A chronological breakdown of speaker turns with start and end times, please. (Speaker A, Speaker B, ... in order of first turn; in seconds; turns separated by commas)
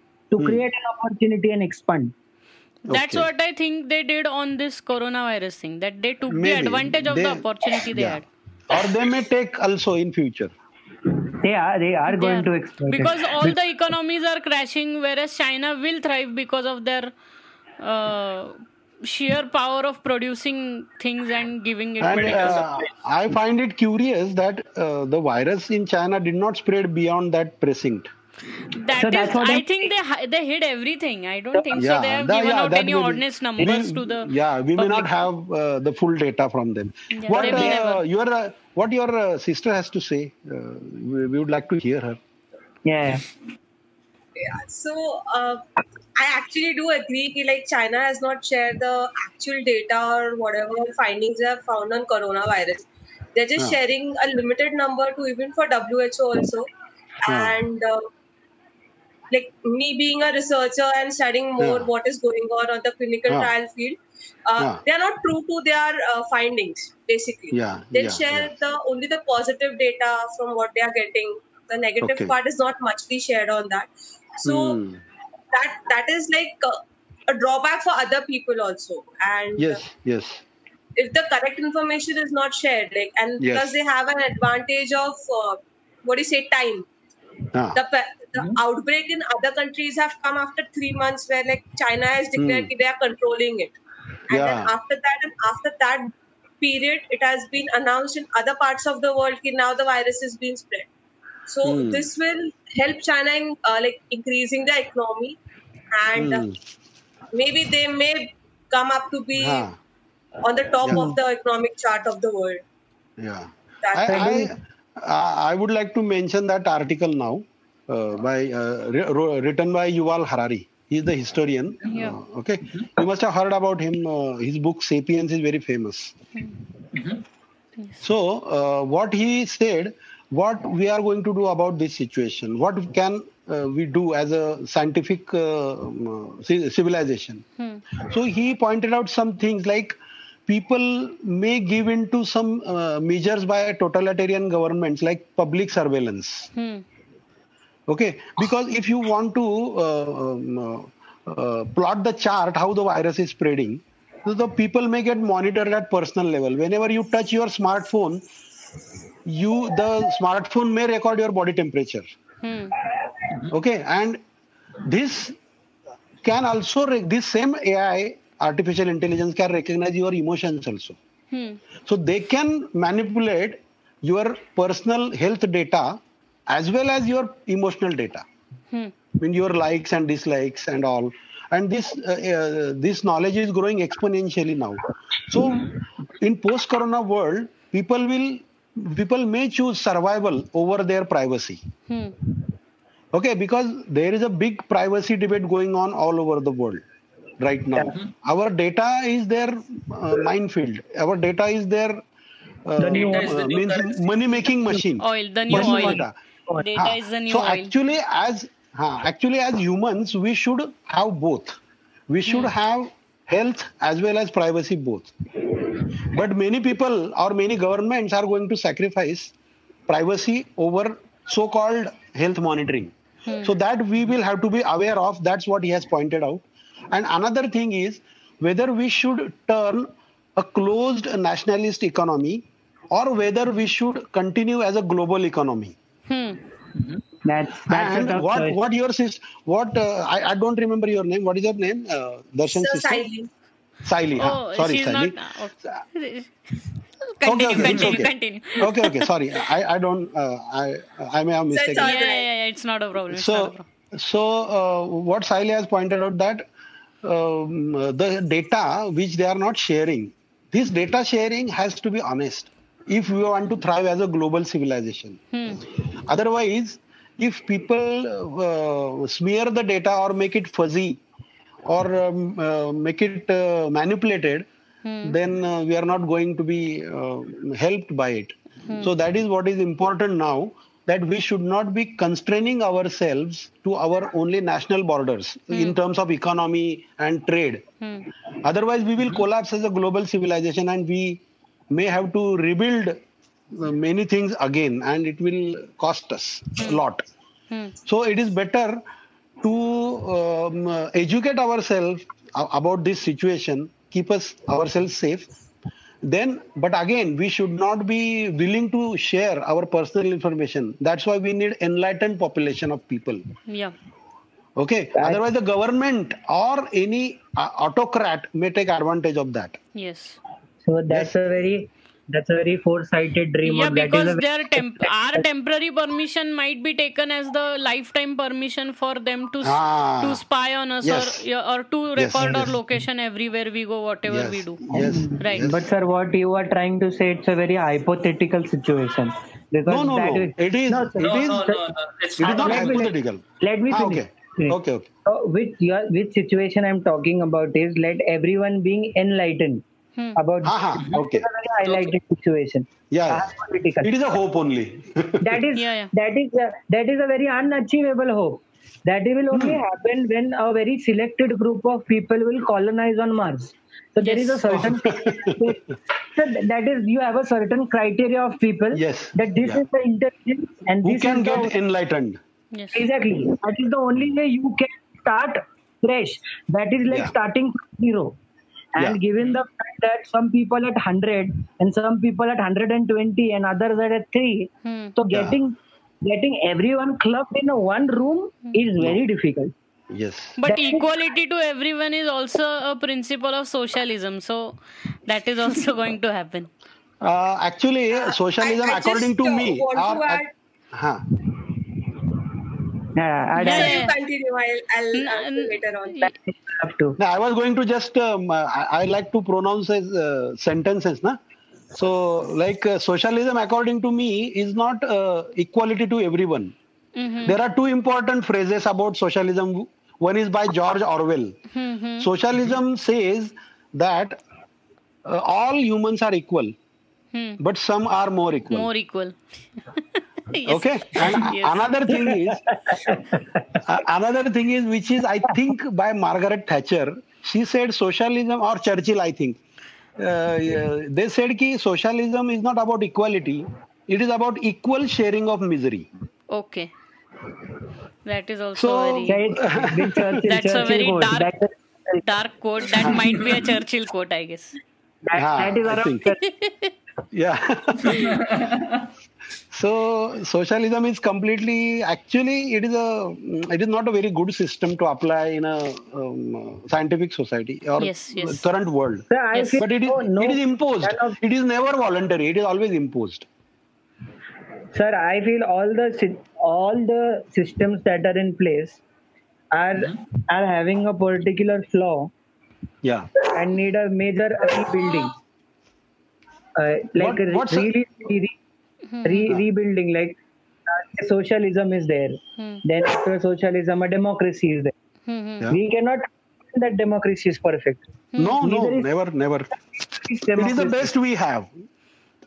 Speaker A: 0.3-2.1, Speaker B: 0.4-0.6, Speaker C: 2.9-8.2, Speaker B: 2.9-3.3, Speaker B: 6.3-10.5, Speaker A: 11.4-13.6, Speaker C: 12.1-17.1, Speaker C: 17.8-22.6, Speaker B: 22.0-28.1, Speaker D: 22.1-22.9, Speaker C: 28.7-35.1, Speaker A: 29.0-29.9, Speaker B: 31.7-42.2, Speaker C: 37.1-38.0, Speaker A: 37.3-37.8, Speaker A: 42.8-43.3, Speaker E: 44.4-45.6, Speaker E: 46.1-56.7, Speaker E: 57.2-58.1, Speaker B: 57.3-57.6, Speaker E: 59.3-73.9, Speaker B: 61.6-61.9, Speaker B: 67.5-68.5, Speaker B: 72.0-72.3, Speaker E: 74.4-74.8, Speaker B: 74.4-75.0, Speaker E: 75.5-79.8, Speaker B: 79.6-80.4, Speaker E: 81.0-86.9, Speaker B: 83.4-83.8, Speaker B: 87.5-87.8, Speaker E: 87.7-93.7, Speaker B: 92.4-92.7, Speaker E: 94.3-100.9, Speaker B: 94.3-94.7, Speaker E: 101.5-105.4, Speaker B: 101.6-102.1, Speaker E: 105.9-106.5, Speaker B: 106.2-106.5, Speaker E: 107.3-109.7, Speaker B: 109.4-109.7, Speaker E: 110.4-112.6, Speaker B: 110.8-111.1, Speaker B: 113.2-126.1, Speaker E: 113.8-114.4, Speaker A: 114.1-114.5, Speaker C: 121.9-122.2, Speaker D: 126.9-127.2, Speaker B: 128.0-137.4, Speaker C: 137.6-137.8, Speaker B: 138.1-146.5, Speaker C: 146.5-146.8, Speaker B: 147.9-158.2, Speaker B: 159.2-162.1, Speaker C: 162.4-162.7, Speaker B: 163.5-164.2, Speaker B: 164.8-165.4, Speaker B: 166.2-171.0, Speaker C: 171.3-171.6, Speaker B: 171.8-178.2, Speaker B: 179.2-191.6, Speaker C: 191.9-192.2, Speaker B: 193.1-196.8, Speaker B: 197.4-202.0, Speaker B: 202.6-206.1, Speaker A: 202.8-203.3, Speaker D: 202.9-204.1, Speaker C: 205.0-206.0, Speaker A: 205.5-206.7, Speaker C: 206.6-207.7, Speaker B: 206.8-211.6, Speaker B: 212.1-215.1, Speaker B: 216.0-219.3, Speaker B: 219.9-235.7, Speaker C: 223.3-223.5, Speaker C: 236.1-236.4, Speaker D: 236.7-237.0, Speaker A: 237.2-238.6, Speaker B: 237.7-243.1, Speaker E: 242.5-243.3, Speaker B: 243.8-245.2, Speaker C: 244.2-246.3, Speaker C: 247.1-249.1, Speaker B: 247.2-251.9, Speaker E: 251.5-252.2, Speaker C: 251.8-253.7, Speaker B: 253.1-256.5, Speaker B: 257.0-265.2, Speaker C: 265.3-265.6, Speaker B: 266.1-271.0, Speaker B: 271.6-274.4, Speaker C: 274.8-275.2, Speaker B: 275.0-287.6, Speaker C: 287.8-288.1, Speaker B: 288.4-293.0, Speaker B: 293.5-297.0, Speaker B: 297.9-298.8, Speaker B: 299.4-305.3, Speaker B: 306.0-313.2, Speaker C: 313.5-313.7, Speaker B: 314.6-319.6, Speaker A: 314.9-315.2, Speaker C: 319.7-320.2, Speaker A: 320.6-325.2, Speaker C: 323.4-334.6, Speaker B: 329.4-330.2, Speaker B: 330.8-331.2, Speaker B: 331.9-332.6, Speaker B: 334.1-335.7, Speaker A: 334.7-341.6, Speaker C: 335.2-335.5, Speaker B: 339.6-341.4, Speaker D: 341.0-342.9, Speaker B: 342.2-344.9, Speaker A: 342.2-349.6, Speaker A: 350.1-353.9, Speaker B: 350.4-351.3, Speaker D: 351.6-351.9, Speaker B: 352.9-353.3, Speaker B: 353.8-355.4, Speaker A: 355.2-371.5, Speaker C: 355.5-355.9, Speaker B: 359.3-359.6, Speaker C: 364.0-364.5, Speaker B: 364.5-365.5, Speaker B: 368.7-369.6, Speaker B: 370.8-372.2, Speaker C: 372.5-372.9, Speaker A: 372.7-378.1, Speaker A: 378.8-389.5, Speaker C: 384.6-384.9, Speaker B: 385.1-385.4, Speaker B: 389.9-390.4, Speaker C: 390.4-396.5, Speaker A: 390.4-390.9, Speaker B: 397.0-401.0, Speaker E: 397.9-400.3, Speaker A: 402.9-403.8, Speaker C: 403.4-403.9, Speaker E: 403.4-406.1, Speaker C: 404.9-406.1, Speaker A: 406.0-406.9, Speaker B: 407.0-411.2, Speaker B: 411.7-416.5, Speaker C: 416.9-417.4, Speaker B: 417.2-421.4, Speaker C: 421.5-422.1, Speaker B: 422.0-424.2, Speaker B: 425.1-426.5, Speaker C: 427.1-427.4, Speaker B: 427.4-428.7, Speaker C: 428.5-429.2, Speaker C: 429.7-431.7, Speaker B: 430.5-432.4, Speaker A: 432.1-433.5, Speaker B: 433.6-439.4, Speaker B: 440.0-445.9, Speaker C: 446.3-446.7, Speaker C: 448.1-449.3, Speaker B: 448.6-450.2, Speaker A: 449.1-452.0, Speaker C: 450.2-451.3, Speaker C: 452.0-454.6, Speaker A: 455.1-456.2, Speaker B: 455.1-456.1, Speaker C: 456.2-456.7, Speaker B: 457.1-458.2, Speaker D: 457.9-458.8, Speaker B: 459.5-469.1, Speaker C: 467.8-468.4, Speaker A: 469.1-471.2, Speaker C: 469.3-469.6, Speaker B: 469.6-473.2, Speaker A: 474.7-478.8, Speaker A: 479.5-482.1, Speaker B: 482.8-483.1, Speaker A: 483.2-485.1, Speaker A: 486.6-488.4, Speaker B: 487.0-487.7, Speaker C: 488.9-489.4, Speaker A: 489.0-494.7, Speaker C: 492.4-492.6, Speaker C: 495.1-495.5, Speaker A: 495.5-497.8, Speaker C: 498.1-498.4, Speaker B: 498.2-499.5, Speaker A: 498.4-498.9, Speaker A: 499.9-500.9, Speaker B: 500.3-501.5